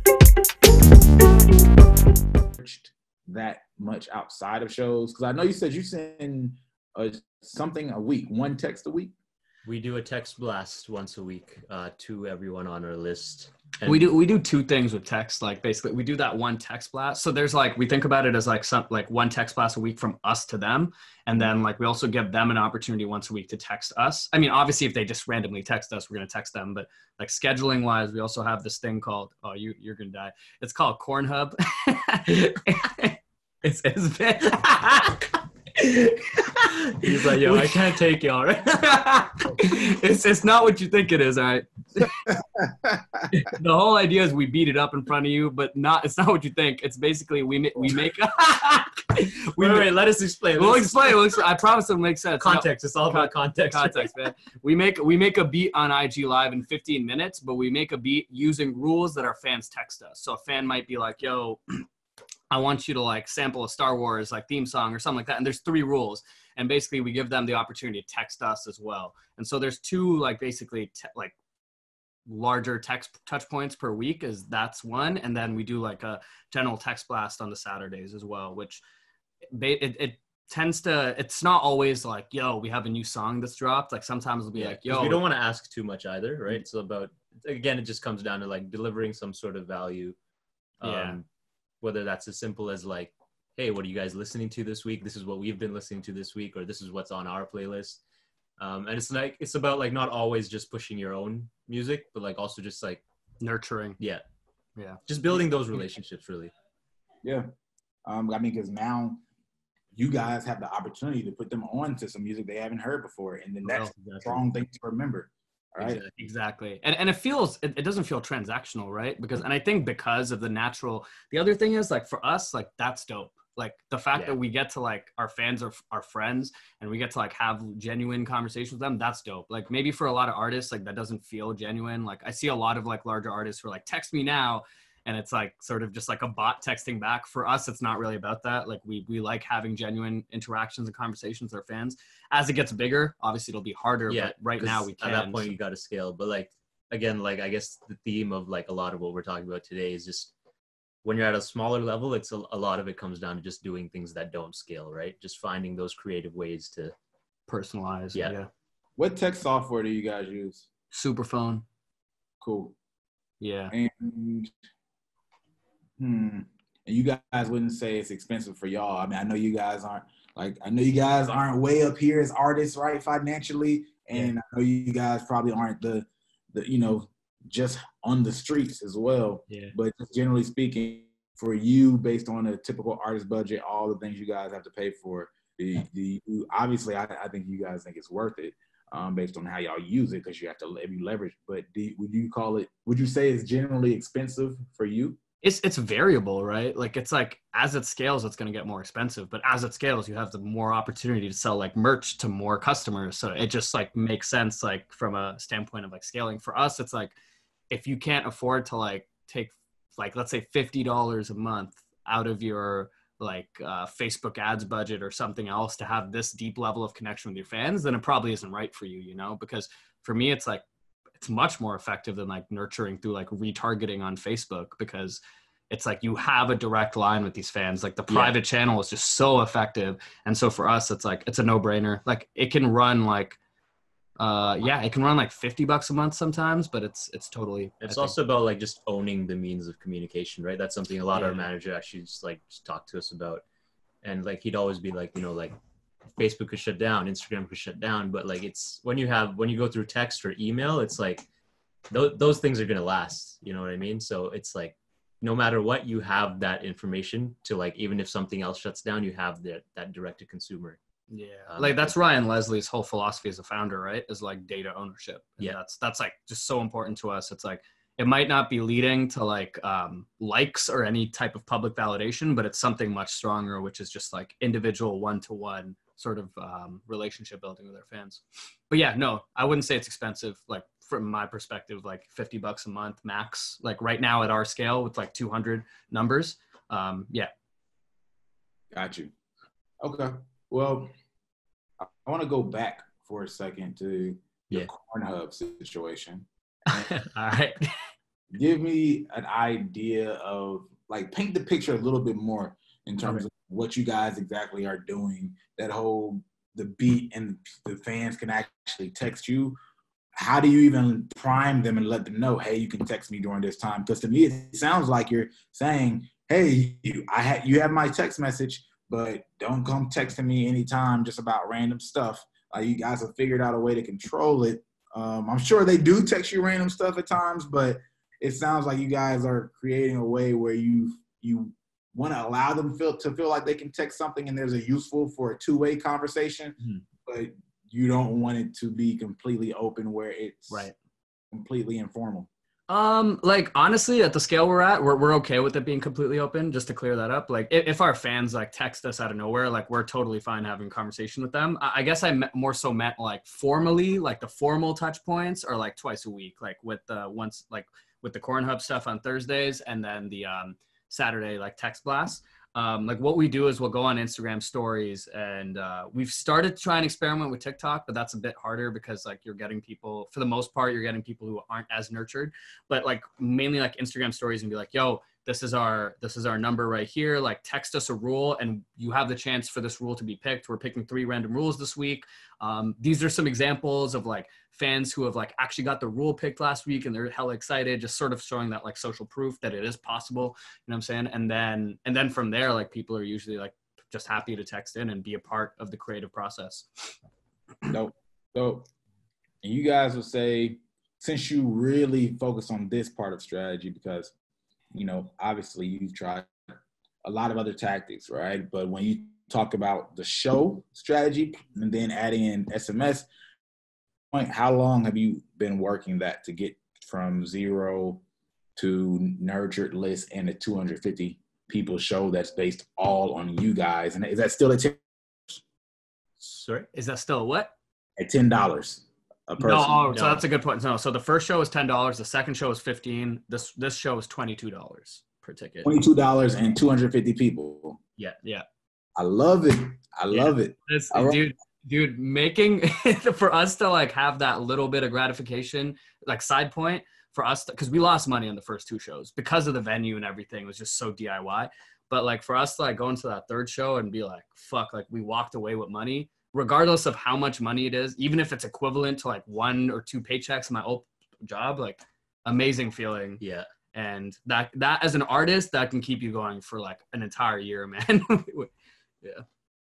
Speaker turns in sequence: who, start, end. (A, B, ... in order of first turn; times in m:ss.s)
0:02.6-0:09.1 A
0:09.6-0:14.1 B
0:13.8-0:35.2 C
0:36.9-0:39.6 B
0:37.0-0:37.8 C
0:39.5-0:41.7 C
0:42.3-0:43.2 A
0:43.4-0:49.9 C
0:49.6-0:51.4 B
0:50.5-1:01.8 C
0:52.4-0:54.1 B
1:02.5-1:11.3 C
1:12.3-1:18.8 C
1:19.5-1:25.2 C
1:24.6-1:30.2 B
1:30.8-1:31.3 B
1:30.8-1:31.2 C
1:31.8-1:38.0 B
1:38.6-1:43.0 B
1:43.4-1:44.0 C
1:44.0-1:44.2 B
1:45.1-1:46.5 B
1:48.1-1:49.2 A
1:49.9-1:56.0 A
1:53.6-1:54.4 C
1:55.8-1:56.1 B
1:56.2-2:25.6 C
2:24.1-2:30.3 B
2:31.0-2:37.0 B
2:37.5-2:38.5 C
2:39.0-2:40.7 A
2:40.9-2:41.6 C
2:42.4-2:42.8 A
2:43.4-2:43.7 C
2:43.7-2:44.5 A
2:46.0-3:15.2 A
2:59.5-2:59.7 C
3:15.4-3:27.2 C
3:27.7-3:40.6 C
3:41.2-3:53.4 C
3:48.1-3:48.4 B
3:54.2-3:58.2 C
3:57.8-4:03.4 B
4:01.1-4:01.5 C
4:04.0-4:05.6 B
4:06.1-4:11.3 B
4:11.9-4:20.8 B
4:21.1-4:47.3 C
4:21.5-4:22.0 B
4:48.7-4:49.1 A
4:49.8-4:50.9 A
4:51.8-4:56.9 A
4:56.7-4:57.6 C
4:58.3-5:09.6 A
5:10.2-5:40.7 A
5:40.5-5:40.8 C
5:41.3-5:42.3 A
5:42.7-6:36.7 C
6:37.7-6:38.7 A
6:39.4-6:44.1 A
6:44.7-6:46.3 A
6:47.0-6:53.1 A
6:54.1-6:58.0 A
6:58.6-7:05.4 A
7:06.2-7:06.7 B
7:06.7-7:07.5 C
7:08.0-7:09.8 A
7:09.4-7:15.7 C
7:09.9-7:10.2 B
7:15.6-7:17.8 A
7:19.0-7:21.2 A
7:20.1-7:43.2 C
7:43.2-7:43.5 B
7:43.7-7:49.2 C